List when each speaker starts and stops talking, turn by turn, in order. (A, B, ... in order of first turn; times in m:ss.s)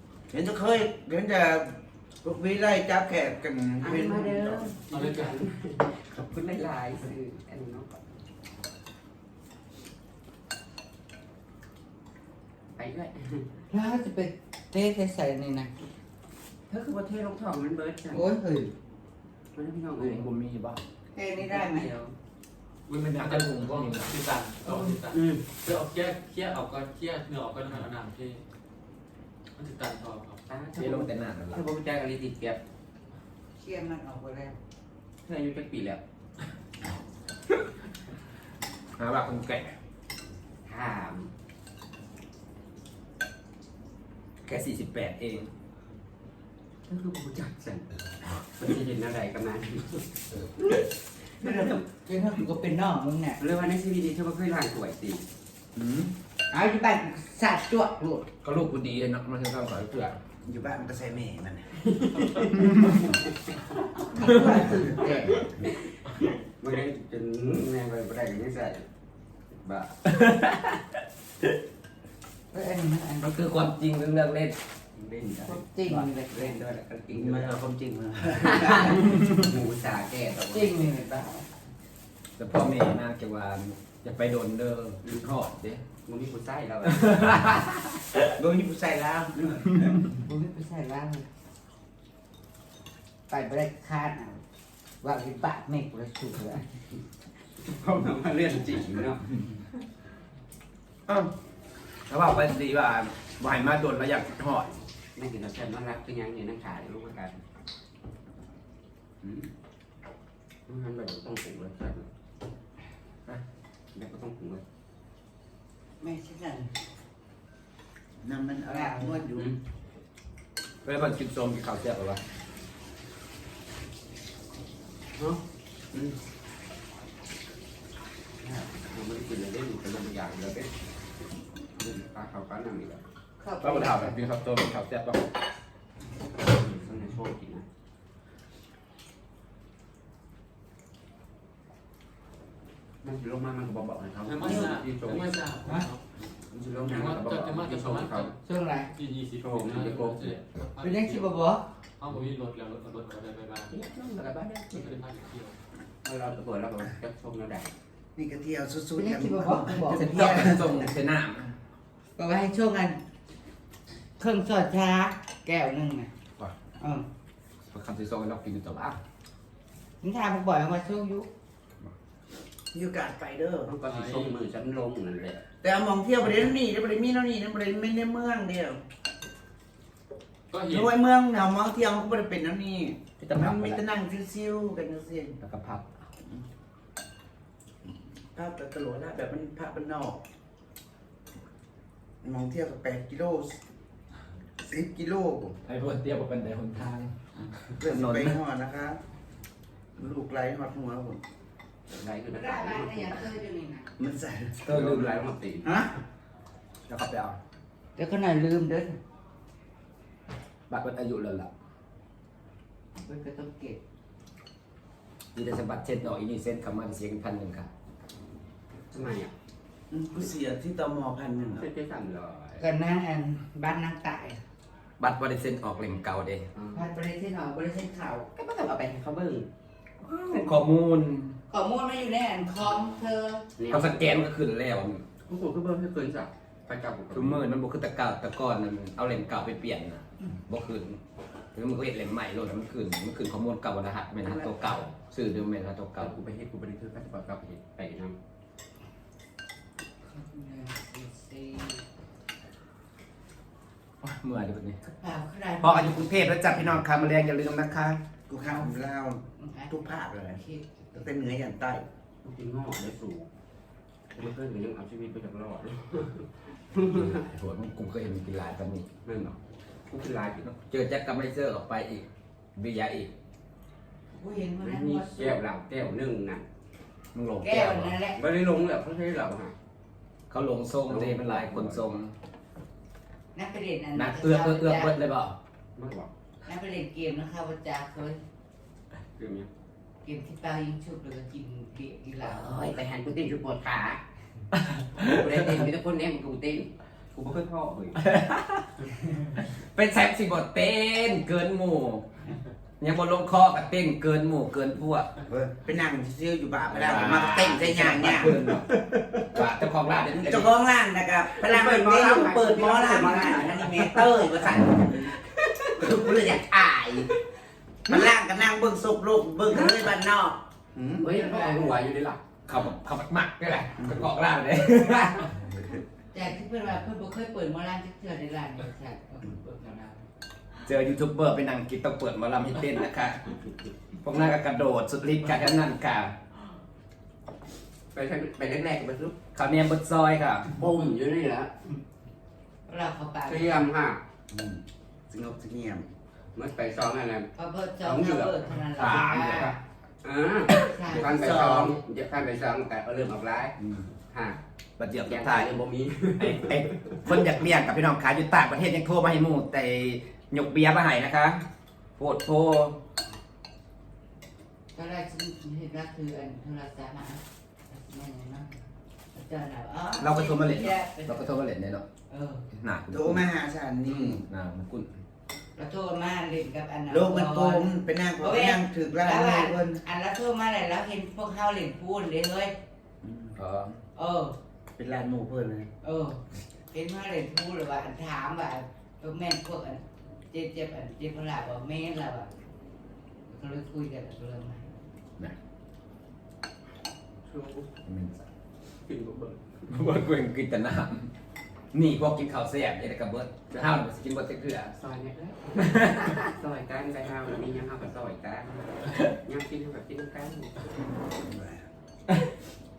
0:00.3-0:04.7 A
0:03.8-0:08.0 B
0:04.9-0:05.4 C
0:12.7-0:13.5 B
0:13.7-0:15.7 D
0:16.7-0:18.2 B
0:18.1-0:18.7 D
0:19.5-0:20.3 B
0:20.0-0:20.8 E
0:21.1-0:21.9 D
0:21.4-0:22.1 B
0:22.9-0:24.1 E
0:23.1-0:28.4 C
0:24.7-0:25.4 B
0:29.6-0:30.4 C
0:30.5-0:32.6 B
0:30.8-0:31.7 E
0:33.6-0:34.6 D
0:35.2-0:36.0 B
0:39.0-0:39.8 E
0:40.6-0:41.3 B
0:44.4-0:45.5 E
0:46.9-0:51.8 B
0:51.4-0:53.4 D
0:53.4-0:55.2 B
0:55.8-0:56.1 A
0:56.5-0:58.3 D
0:58.4-1:00.2 E
1:00.4-1:01.7 A
1:01.8-1:03.6 B
1:04.1-1:05.7 D
1:04.2-1:05.4 A
1:04.8-1:05.6 B
1:06.6-1:08.8 B
1:09.5-1:10.0 B
1:10.1-1:10.7 E
1:12.5-1:13.3 D
1:13.2-1:14.6 E
1:15.0-1:17.6 B
1:15.4-1:16.6 D
1:17.1-1:19.0 A
1:18.3-1:20.9 B
1:20.5-1:21.5 D
1:22.4-1:25.8 E
1:26.0-1:27.3 B
1:26.8-1:28.2 E
1:28.4-1:30.0 A
1:30.1-1:31.3 D
1:33.3-1:34.4 D
1:35.0-1:36.7 D
1:37.6-1:39.4 B
1:42.1-1:44.8 E
1:45.1-1:47.4 B
1:50.7-1:52.1 B
1:53.9-1:54.6 B
1:56.0-1:56.7 D
1:58.2-1:59.6 A
1:58.6-1:59.2 D
2:00.8-2:02.2 E
2:05.2-2:05.4 B
2:08.4-2:10.7 B
2:11.8-2:13.0 B
2:13.4-2:14.2 D
2:13.6-2:15.2 E
2:16.4-2:17.6 B
2:23.0-2:25.5 B
2:24.2-2:26.0 C
2:26.4-2:28.3 B
2:26.9-2:28.3 C
2:28.4-2:28.9 D
2:28.9-2:31.3 C
2:29.4-2:30.4 B
2:30.8-2:31.6 D
2:32.0-2:33.7 C
2:33.7-2:35.1 B
2:34.7-2:35.6 C
2:36.0-2:37.7 B
2:38.2-2:41.0 A
2:39.0-2:40.2 D
2:39.9-2:41.5 E
2:42.2-2:43.0 D
2:44.2-2:46.1 D
2:46.8-2:47.0 D
2:47.7-2:49.0 E
2:50.0-2:51.3 D
2:52.7-2:53.7 A
2:53.6-2:55.4 B
2:53.8-2:54.3 C
2:55.6-2:58.8 A
3:00.5-3:00.9 C
3:00.6-3:05.4 A
3:03.2-3:03.8 E
3:05.4-3:05.9 E
3:07.8-3:10.2 A
3:12.2-3:13.6 A
3:14.6-3:15.6 A
3:15.6-3:17.1 E
3:17.4-3:19.0 A
3:17.6-3:18.4 E
3:20.0-3:21.2 A
3:21.9-3:23.3 B
3:22.3-3:23.9 D
3:24.0-3:24.6 A
3:24.6-3:25.2 E
3:24.7-3:25.7 B
3:25.6-3:26.0 A
3:26.9-3:27.4 E
3:28.0-3:29.0 D
3:30.7-3:31.5 E
3:33.0-3:33.8 D
3:35.3-3:37.7 E
3:38.9-3:39.3 B
3:39.9-3:41.7 A
3:41.5-3:42.6 B
3:42.6-3:44.4 D
3:45.0-3:46.5 E
3:46.5-3:46.9 B
3:46.7-3:48.3 D
3:48.3-3:49.5 B
3:50.2-3:51.4 E
3:51.5-3:53.4 D
3:53.6-3:54.2 B
3:53.7-3:55.0 E
3:55.3-3:57.4 B
3:57.1-4:01.0 E
4:01.5-4:06.2 E
4:04.2-4:04.6 A
4:06.0-4:08.1 B
4:10.0-4:11.8 D
4:14.0-4:14.8 E
4:14.8-4:16.4 D
4:15.6-4:18.0 E
4:18.3-4:20.4 A
4:19.4-4:21.0 D
4:20.9-4:21.8 A
4:22.2-4:23.3 B
4:24.1-4:27.3 B
4:26.9-4:28.9 E
4:29.0-4:30.5 B
4:30.4-4:33.1 E
4:34.1-4:35.4 D
4:34.6-4:36.4 B
4:37.1-4:38.0 E
4:37.4-4:38.2 D
4:38.2-4:39.5 B
4:40.3-4:42.1 E
4:40.9-4:41.8 B
4:43.3-4:45.0 D
4:44.0-4:45.4 E
4:45.8-4:46.1 B
4:46.4-4:48.2 D
4:49.2-4:49.5 B
4:50.0-4:52.7 D
4:52.2-4:54.0 B
4:54.6-4:55.6 E
4:55.0-4:58.0 B
4:58.0-4:58.7 E
4:59.3-5:02.0 E
5:02.8-5:05.1 E
5:05.3-5:09.4 A
5:06.7-5:08.6 E
5:09.3-5:10.5 E
5:10.1-5:15.2 A
5:11.3-5:17.2 B
5:15.8-5:17.0 A
5:17.9-5:21.1 A
5:19.5-5:19.9 B
5:21.0-5:22.2 B
5:21.0-5:21.7 D
5:22.4-5:25.4 E
5:26.1-5:30.0 D
5:30.6-5:33.2 E
5:34.0-5:36.1 E
5:37.9-5:39.2 B
5:39.3-5:40.5 E
5:40.5-5:41.8 B
5:42.7-5:43.7 D
5:43.2-5:44.0 B
5:44.3-5:45.9 A
5:46.3-5:53.6 B
5:47.3-5:49.6 D
5:48.8-5:49.6 E
5:50.5-5:51.8 E
5:50.6-5:51.7 D
5:53.6-5:53.8 E
5:54.1-5:54.4 B
5:54.8-5:55.5 E
5:55.0-5:57.0 B
5:56.2-6:01.4 E
6:02.0-6:02.8 E
6:04.7-6:08.6 D
6:09.1-6:11.4 D
6:10.0-6:11.8 E
6:12.1-6:12.4 D
6:12.5-6:13.2 E
6:12.9-6:14.2 A
6:13.8-6:14.9 E
6:15.5-6:22.5 D
6:16.9-6:19.8 A
6:23.0-6:23.4 A
6:23.4-6:23.8 E
6:23.9-6:24.3 D
6:24.8-6:25.7 A
6:25.8-6:26.2 D
6:26.7-6:32.3 D
6:33.3-6:34.7 D
6:37.2-6:37.7 B
6:37.8-6:38.2 E
6:38.9-6:39.6 B
6:39.7-6:41.1 E
6:41.7-6:44.7 E
6:44.7-6:50.7 B
6:45.6-6:46.3 E
6:51.0-6:51.6 A